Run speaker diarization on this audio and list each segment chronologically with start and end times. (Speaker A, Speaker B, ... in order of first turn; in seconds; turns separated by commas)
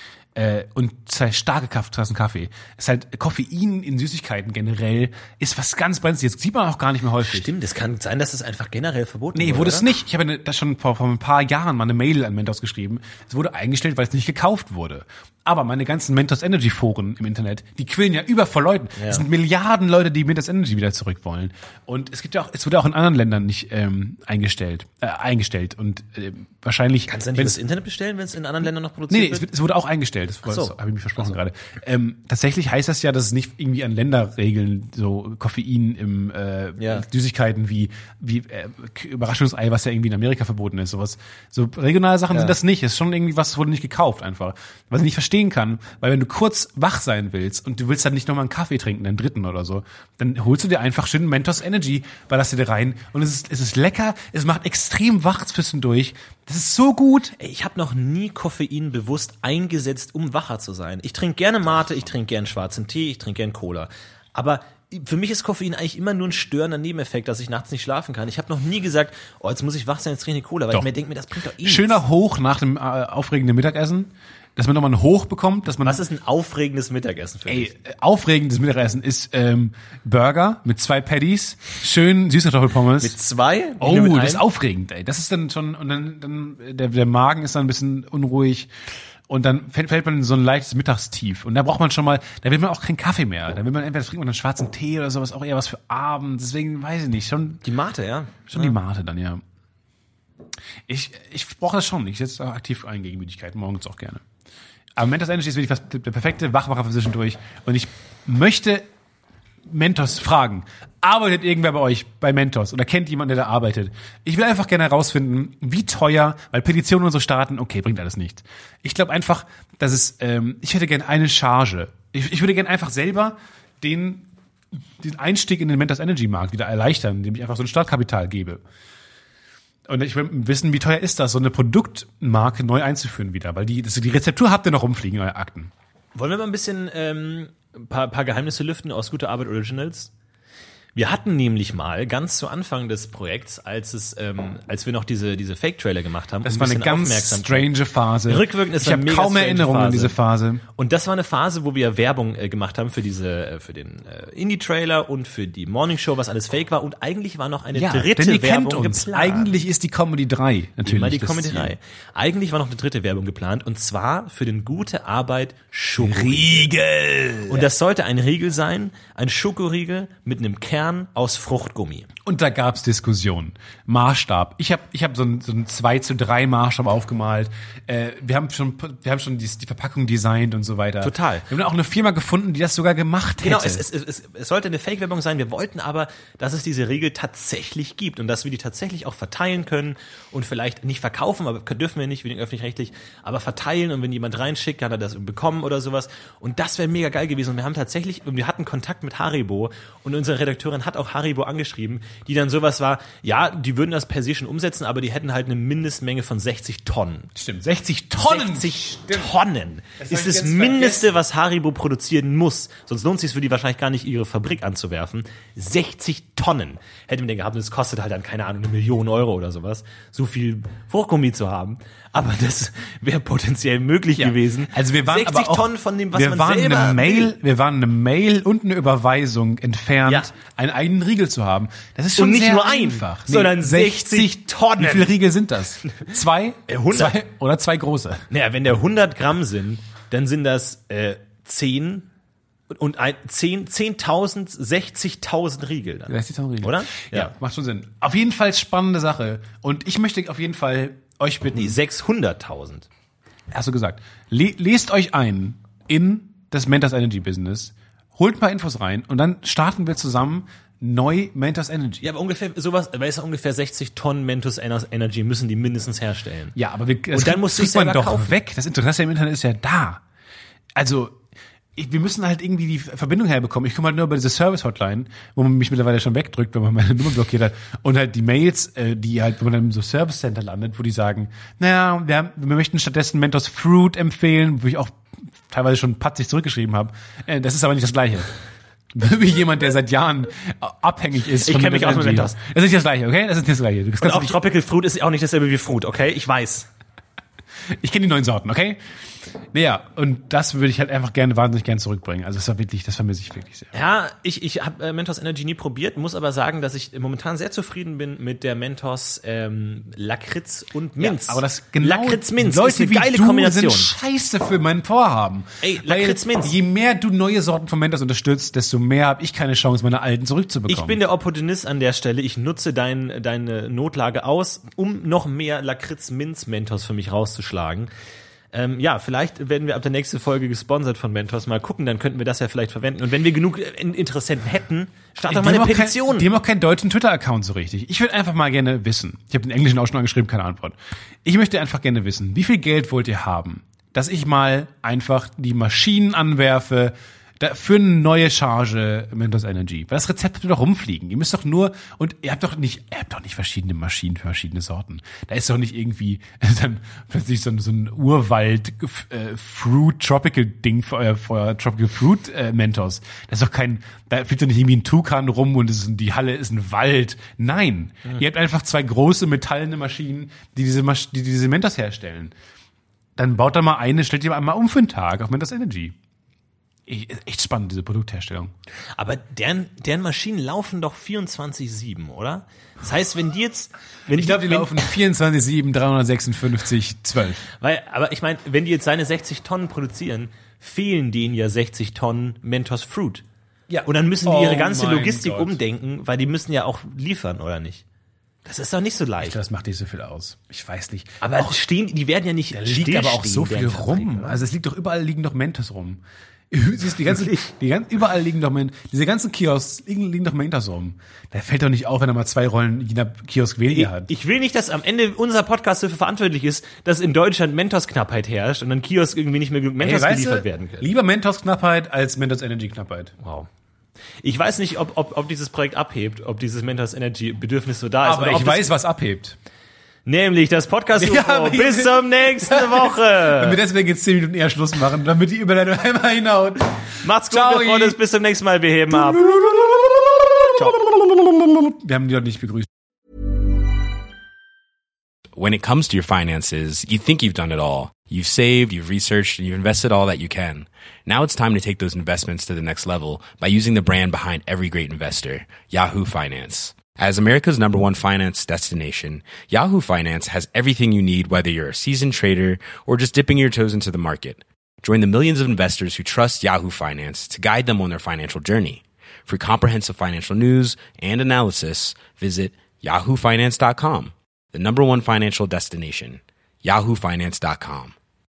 Speaker A: 0.3-7.5, Speaker B: 7.2-9.9, Speaker A: 9.3-27.6, Speaker B: 19.0-19.2, Speaker B: 27.1-29.5, Speaker A: 29.1-57.4, Speaker B: 30.4-31.4, Speaker B: 36.8-37.0, Speaker B: 42.3-42.6, Speaker B: 57.4-72.0, Speaker A: 71.6-76.0, Speaker B: 75.8-77.7, Speaker A: 77.5-83.2, Speaker B: 83.0-84.4, Speaker A: 83.8-88.7, Speaker A: 89.3-97.6, Speaker B: 97.6-98.8, Speaker A: 98.5-99.4, Speaker A: 100.9-104.2, Speaker A: 105.0-108.8, Speaker A: 109.7-124.3, Speaker A: 125.0-128.6, Speaker A: 129.9-135.7, Speaker B: 136.2-140.1, Speaker B: 140.9-147.7, Speaker A: 146.4-150.6, Speaker B: 148.3-150.2, Speaker B: 150.8-159.5, Speaker A: 157.7-161.7, Speaker B: 160.8-166.7, Speaker A: 166.0-167.7, Speaker B: 167.5-172.1, Speaker A: 172.2-183.8, Speaker B: 181.0-181.5, Speaker B: 183.4-207.3, Speaker A: 207.3-209.3, Speaker B: 208.2-227.3, Speaker A: 210.0-211.2, Speaker A: 224.2-238.3, Speaker B: 230.1-230.3, Speaker B: 232.2-235.1, Speaker B: 236.7-237.2, Speaker B: 238.3-242.1, Speaker B: 242.7-247.3, Speaker A: 246.1-251.8, Speaker B: 251.5-252.9, Speaker A: 253.5-262.1, Speaker B: 262.0-266.6, Speaker A: 266.6-270.0, Speaker B: 267.1-268.3, Speaker A: 270.8-271.2, Speaker A: 271.8-288.3, Speaker A: 288.9-294.4, Speaker B: 291.4-292.4, Speaker B: 294.0-296.7, Speaker A: 297.8-298.8, Speaker A: 299.5-303.7, Speaker B: 303.7-313.9, Speaker A: 311.0-321.0, Speaker B: 315.6-316.6, Speaker B: 320.7-327.9, Speaker B: 328.5-336.3, Speaker A: 335.3-372.3, Speaker A: 373.2-375.9, Speaker A: 376.9-378.5, Speaker B: 379.0-384.9, Speaker A: 384.1-387.4, Speaker B: 387.6-393.2, Speaker A: 393.7-395.6, Speaker B: 393.9-397.8, Speaker B: 398.4-399.4, Speaker A: 399.2-401.6, Speaker B: 401.2-404.4, Speaker A: 402.5-414.1, Speaker B: 407.1-407.5, Speaker B: 413.7-420.9, Speaker A: 419.8-423.1, Speaker B: 423.2-423.5, Speaker B: 424.2-428.7, Speaker A: 428.0-429.4, Speaker B: 430.1-433.6, Speaker A: 431.0-438.0, Speaker B: 437.0-439.4, Speaker A: 438.9-442.7, Speaker C: 445.4-477.9